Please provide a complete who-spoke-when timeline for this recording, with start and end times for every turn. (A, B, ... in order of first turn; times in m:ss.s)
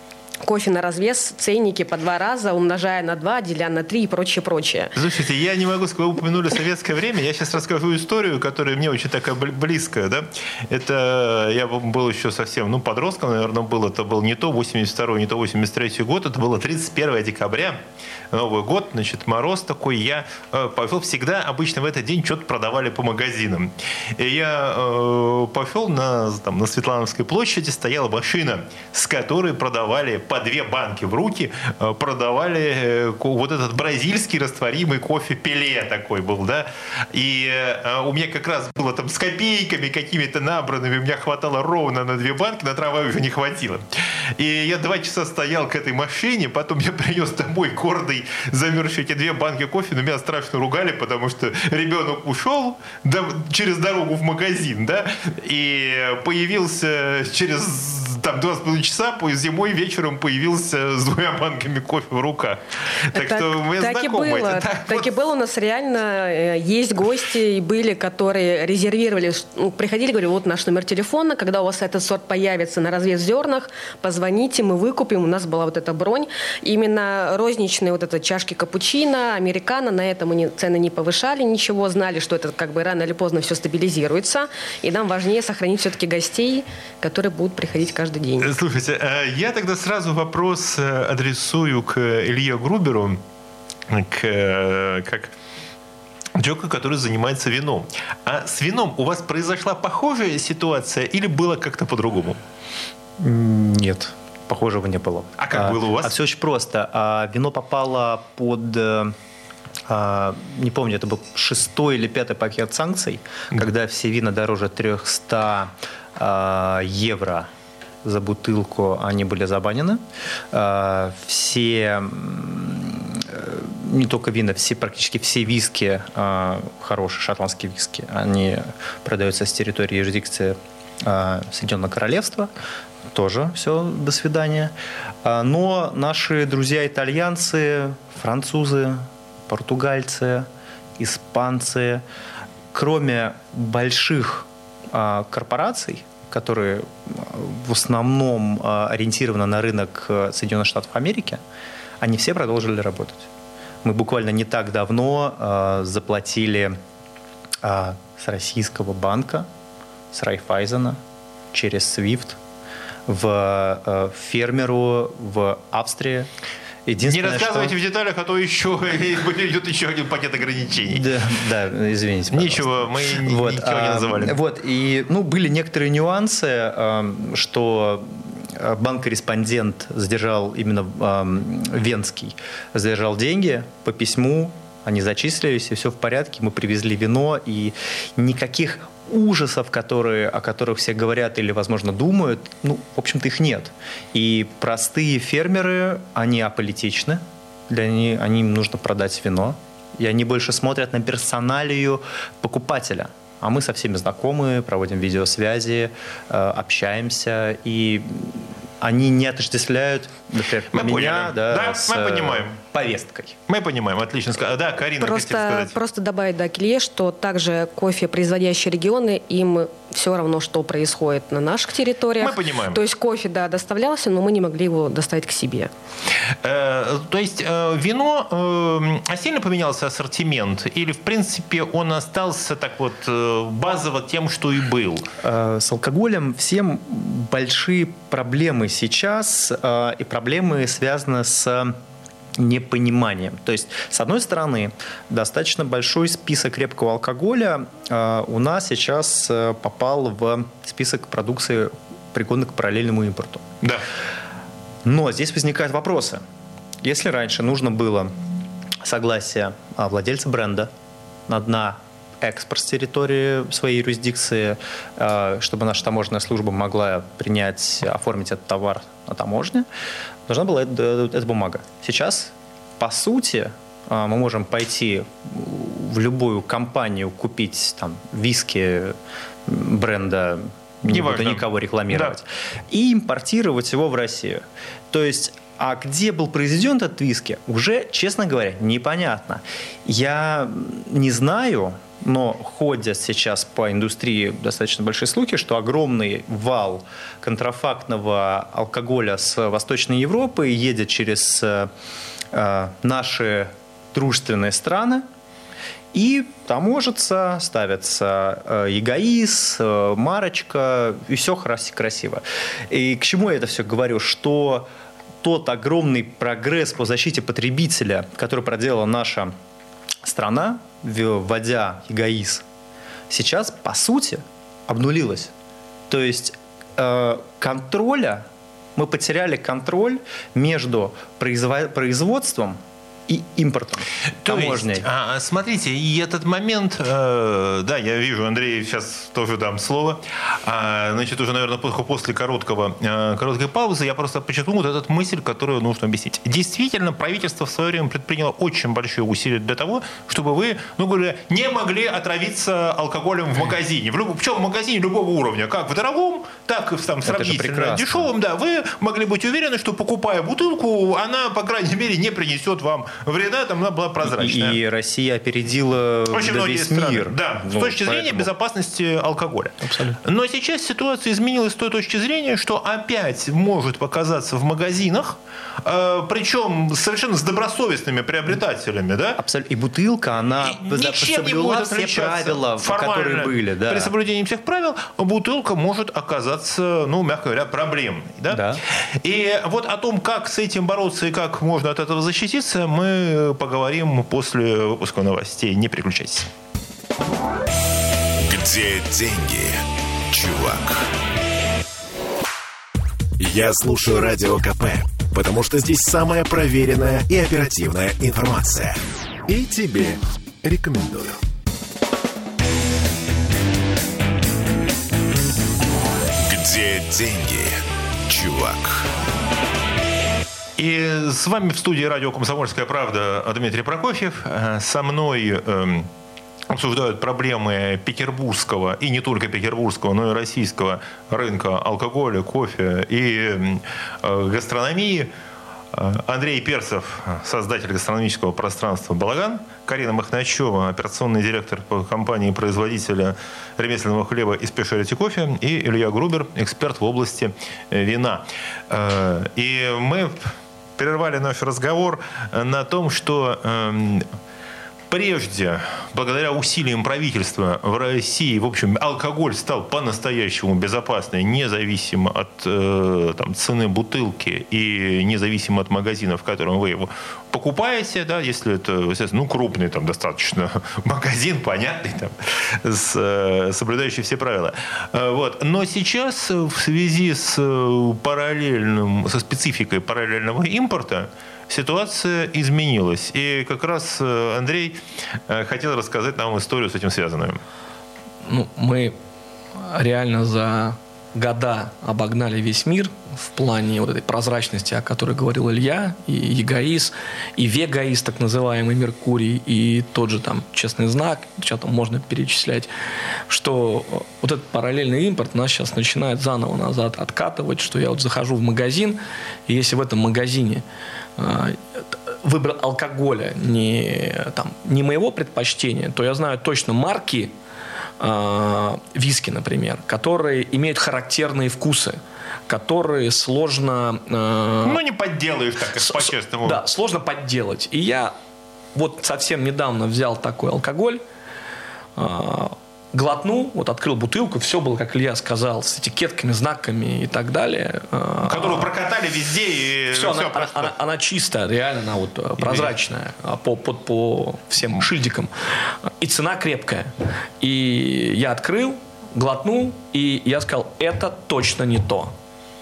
0:00.4-0:04.9 A
0:04.9-0:17.8 B
0:18.3-1:05.1 B
1:03.1-1:28.5 A
1:28.4-1:33.2 B
1:33.9-1:35.3 B
1:36.3-1:42.4 B
1:43.2-1:49.1 C
1:45.4-1:46.1 B
1:49.9-1:57.5 C
1:58.0-2:00.0 C
2:00.5-2:12.5 C
2:13.1-2:14.7 C
2:15.2-2:20.5 C
2:21.0-2:22.0 C
2:22.7-2:31.4 C
2:32.0-2:33.3 C
2:33.8-2:36.8 C
2:37.6-2:39.5 C
2:40.1-2:41.0 C
2:41.5-2:42.4 C
2:43.1-2:46.3 C
2:46.8-2:47.8 C
2:47.0-2:51.1 B
2:50.9-3:33.4 C
2:52.3-2:54.4 B
3:30.7-3:32.6 B
3:33.5-3:35.7 B
3:35.0-3:45.7 A
3:42.2-3:42.8 B
3:46.3-3:55.1 B
3:55.2-4:01.8 C
4:02.4-4:13.4 C
4:14.8-4:16.2 C
4:16.8-4:18.1 C
4:18.8-4:20.7 C
4:21.3-4:29.7 C
4:30.3-4:38.9 C
4:39.5-5:01.7 C
4:40.9-4:42.2 B
5:02.3-5:05.0 C
5:05.9-5:14.7 C
5:15.2-5:19.3 C
5:20.0-5:22.4 C
5:23.1-5:25.3 C
5:25.9-5:34.9 C
5:34.2-6:04.6 B
5:57.0-5:58.1 C
6:04.0-6:08.3 C
6:06.1-6:19.2 B
6:09.6-6:10.0 D
6:19.2-6:23.9 C
6:20.4-6:36.3 B
6:28.3-6:28.6 C
6:38.2-6:40.9 E
6:43.2-6:51.2 E
6:56.2-6:58.9 E
7:00.6-7:05.9 B
7:06.5-7:15.1 B
7:15.7-7:34.0 B
7:34.9-8:07.4 B
8:08.2-8:08.9 D
8:09.5-8:22.7 D
8:23.3-8:30.6 D
8:31.2-8:37.3 D
8:38.0-8:44.8 D
8:44.6-8:46.6 B
8:45.8-8:48.1 D
8:48.7-8:51.0 D
8:52.0-8:58.7 D
8:58.2-9:00.7 B
8:59.9-9:12.1 D
9:02.4-9:02.7 B